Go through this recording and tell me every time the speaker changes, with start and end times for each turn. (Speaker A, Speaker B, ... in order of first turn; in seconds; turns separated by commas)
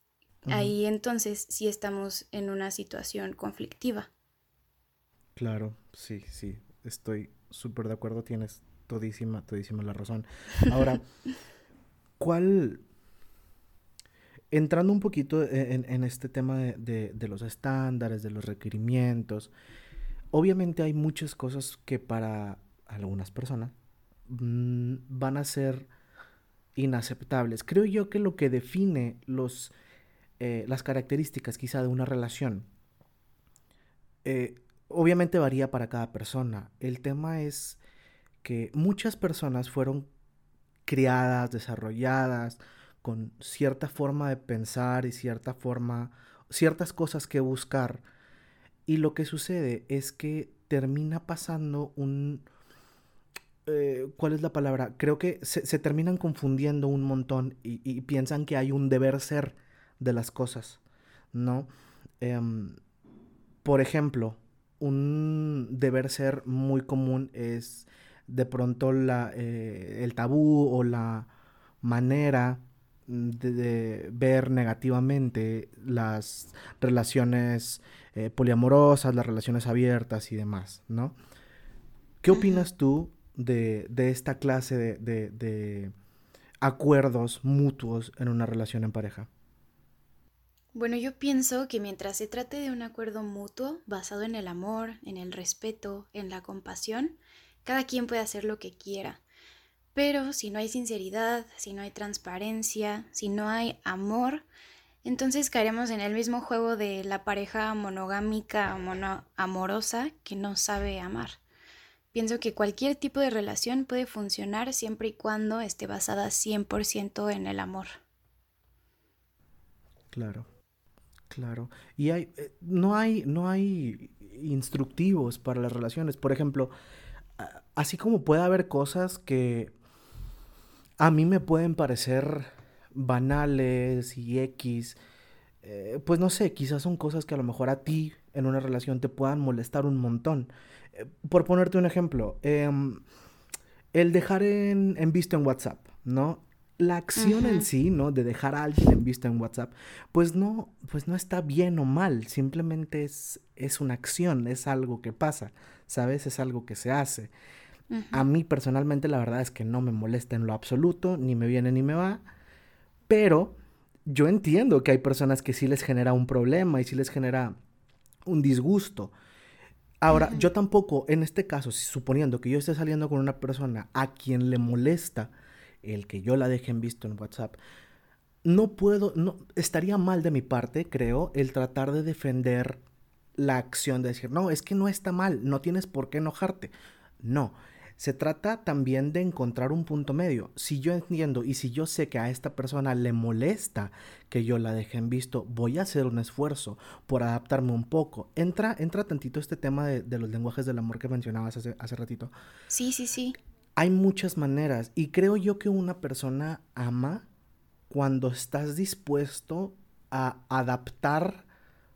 Speaker A: 0.5-0.7, Speaker B: 0.5-4.1, Speaker A: 5.3-11.0, Speaker A: 12.2-12.8, Speaker A: 14.5-19.5, Speaker A: 20.3-23.7, Speaker A: 24.3-25.9, Speaker A: 26.8-29.7, Speaker A: 30.4-32.7, Speaker A: 34.2-37.8, Speaker A: 38.4-40.1, Speaker A: 40.9-48.0, Speaker A: 48.9-52.5, Speaker A: 53.6-60.8, Speaker A: 61.3-61.7, Speaker A: 62.2-62.8, Speaker A: 63.6-71.3, Speaker A: 71.8-81.1, Speaker A: 82.2-85.9, Speaker B: 82.3-82.7, Speaker A: 86.6-89.3, Speaker B: 90.7-99.2, Speaker B: 99.9-104.4, Speaker B: 105.0-111.4, Speaker B: 112.1-118.0, Speaker A: 120.1-120.4, Speaker A: 121.3-126.7, Speaker A: 127.4-129.7, Speaker A: 131.0-135.0, Speaker A: 135.6-143.0, Speaker A: 143.9-157.3, Speaker B: 147.2-147.7, Speaker B: 157.9-158.2, Speaker A: 158.1-162.2, Speaker A: 163.1-163.6, Speaker A: 164.1-167.6, Speaker A: 168.2-169.1, Speaker A: 170.0-175.3, Speaker B: 170.1-170.5, Speaker A: 175.8-177.6, Speaker A: 178.4-182.8, Speaker A: 183.4-202.3, Speaker B: 202.7-203.3, Speaker A: 203.8-207.3, Speaker A: 207.9-211.4